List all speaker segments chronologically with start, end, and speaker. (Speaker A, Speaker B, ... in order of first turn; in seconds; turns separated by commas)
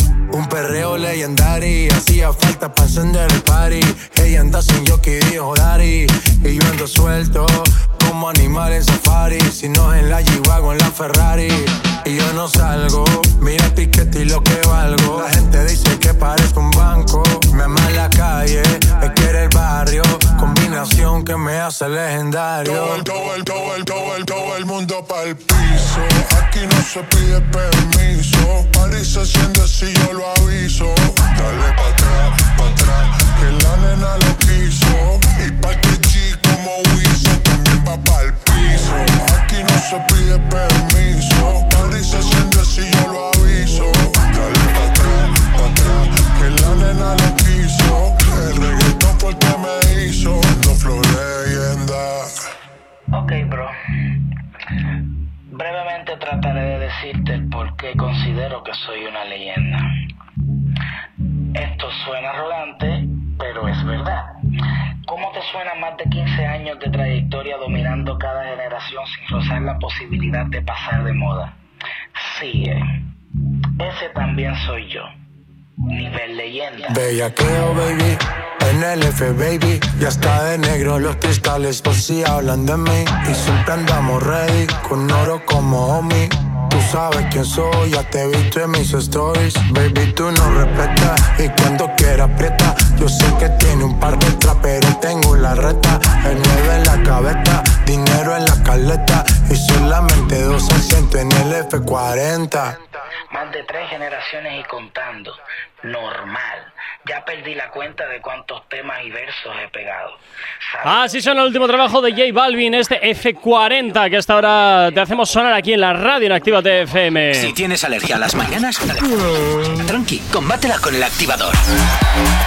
Speaker A: 0.3-23.0, Speaker B: 22.6-52.3, Speaker C: 53.1-53.7, Speaker C: 55.5-59.8, Speaker C: 61.5-64.3, Speaker C: 65.1-71.5, Speaker C: 72.2-72.8, Speaker C: 73.8-75.1, Speaker C: 75.9-77.0, Speaker A: 76.9-102.8, Speaker C: 103.3-110.2, Speaker C: 110.8-111.3, Speaker D: 110.8-117.5, Speaker E: 117.3-121.6